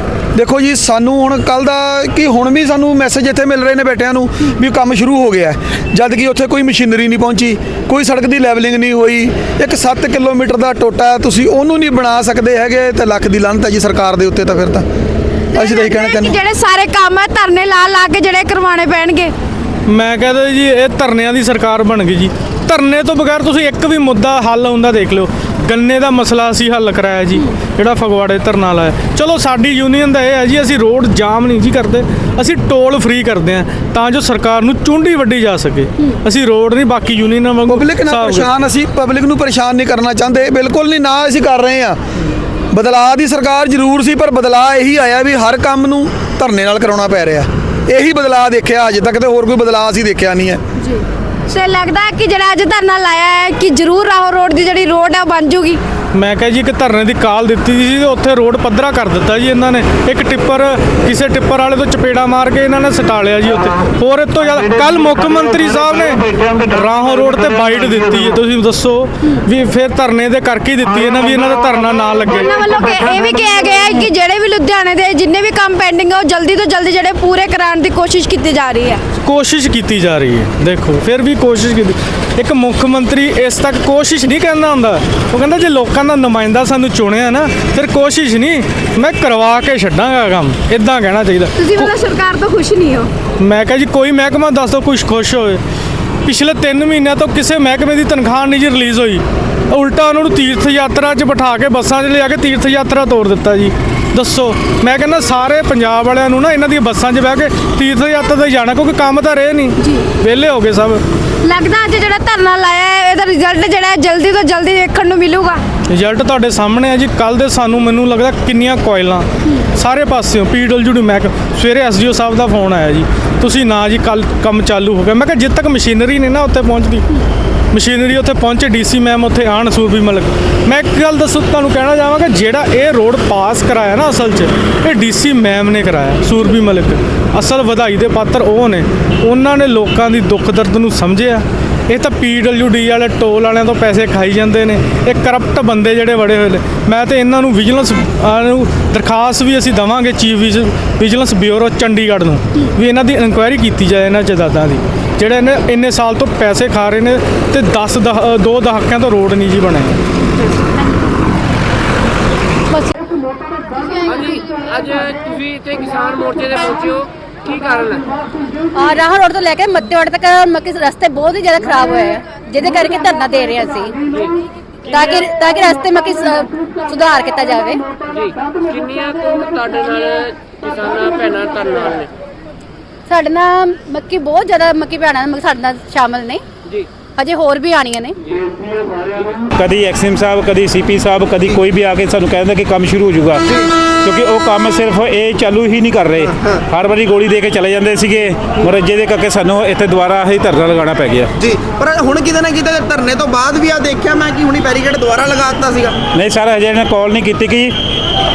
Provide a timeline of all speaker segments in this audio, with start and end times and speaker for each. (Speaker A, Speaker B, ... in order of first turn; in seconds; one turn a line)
Speaker A: 0.3-14.8
Speaker B: 15.5-19.3
Speaker A: 15.6-16.4
Speaker C: 19.9-38.5
Speaker A: 37.7-42.0
Speaker A: 42.7-50.6
Speaker B: 50.8-55.8
Speaker C: 56.1-72.5
Speaker B: 72.4-79.0
Speaker C: 79.2-91.9
Speaker B: 91.6-93.1
Speaker C: 93.4-95.6
Speaker C: 96.2-111.0
Speaker B: 111.4-115.6
Speaker C: 115.9-127.0
Speaker C: 127.7-160.0
Speaker D: 165.7-167.0
Speaker D: 167.7-168.0
Speaker E: 168.8-173.9
Speaker E: 174.9-177.8
Speaker D: 179.0-182.1
Speaker E: 183.1-186.4
Speaker E: 187.2-188.2
Speaker F: 189.5-201.3
Speaker G: 201.4-206.0
Speaker F: 206.1-207.8